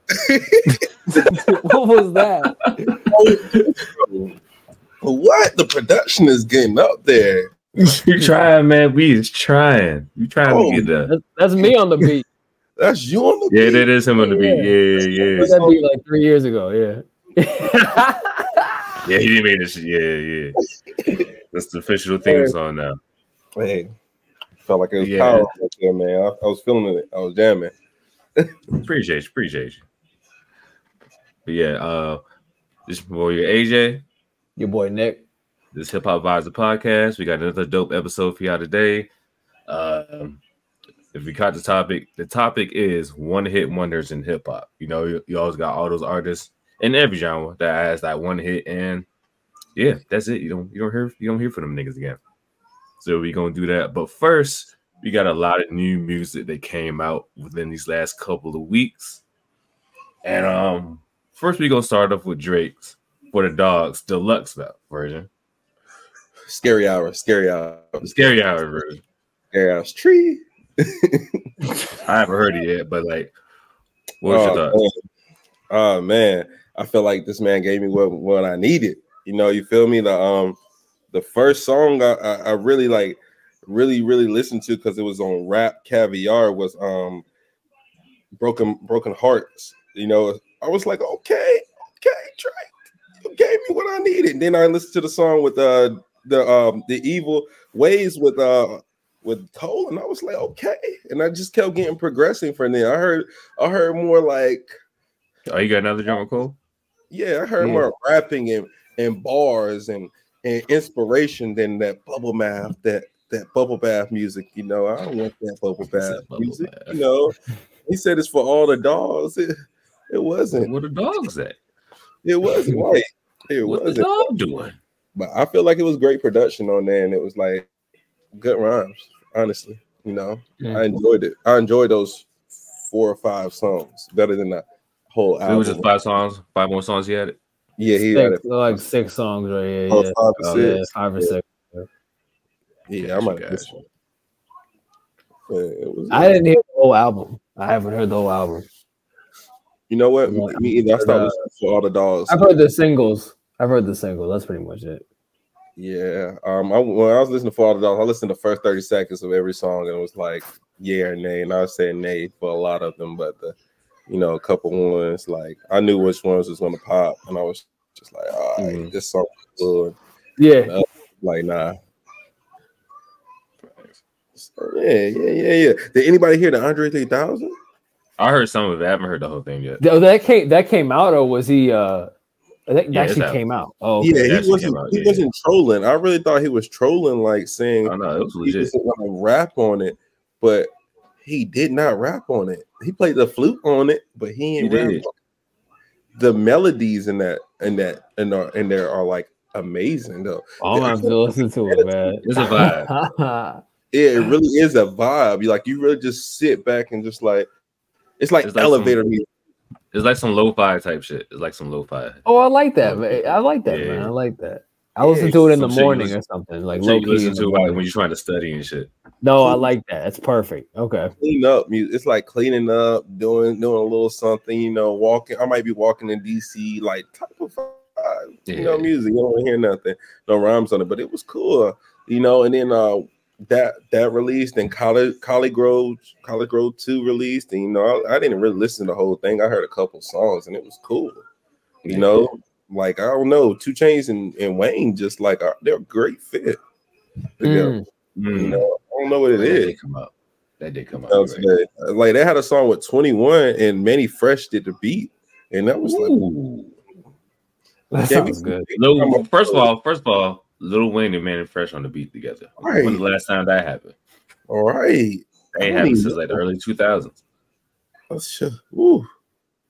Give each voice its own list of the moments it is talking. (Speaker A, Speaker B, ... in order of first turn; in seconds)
Speaker A: 0.1-1.4, 3.0-4.3, 5.0-7.5, 10.4-10.9, 12.8-13.9, 15.0-15.8, 21.0-21.2, 22.2-22.5, 23.6-23.9, 24.6-27.7, 66.5-68.1, 69.5-71.4, 74.2-74.9, 75.7-80.6, 81.1-87.2, 88.4-104.6, 107.1-117.3, 117.8-119.5, 120.1-120.7, 122.2-124.1, 125.1-127.7, 128.3-135.9, 137.8-138.8, 139.9-141.3, 142.9-143.7, 145.5-146.4, 149.9-152.6, 155.8-163.5, 164.1-170.0, 170.6-171.8, 174.4-177.5, 184.0-190.7, 191.2-195.1, 196.2-202.7, 203.9-207.5, 208.2-209.3, 215.0-215.4, 219.4-219.7, 221.2-241.2, 241.9-246.6, 247.4-247.7, 248.3-249.8, 250.9-256.2, 258.1-259.7, 262.6-263.0, 264.5-266.4, 268.1-269.0
Speaker B: 1.1-2.5, 11.1-12.2, 14.2-14.7, 15.4-19.0, 34.6-35.2, 107.6-107.8, 138.0-141.8, 146.1-148.7, 150.2-151.3, 152.3-155.0, 170.4-170.7, 179.8-182.1, 182.7-184.3, 200.6-203.6, 212.2-217.8, 219.2-221.1, 247.4-247.8, 257.9-258.7
Speaker C: 2.6-3.7, 7.8-11.1, 13.5-15.6, 19.0-20.6, 21.5-23.0, 25.0-25.5, 28.8-29.8, 31.4-32.2, 32.9-34.0, 35.7-39.1, 39.7-40.4, 41.1-49.0, 49.7-52.2, 53.0-59.2, 60.2-65.3, 68.0-69.0, 72.0-73.3, 74.2-74.8, 105.5-106.5, 115.8-117.0, 120.5-121.6, 123.6-124.8, 135.4-137.4, 140.4-140.8, 143.0-143.8, 168.6-168.9, 173.7-173.9, 178.2-179.8, 182.9-183.4, 184.2-185.2, 187.8-188.7, 194.6-195.0, 202.2-202.9, 208.4-209.0, 209.9-212.2, 212.8-214.1, 215.4-216.1, 216.8-218.9, 228.5-228.9, 241.8-242.3, 248.2-248.7, 249.4-251.5, 255.8-256.8, 258.8-263.9, 265.5-267.2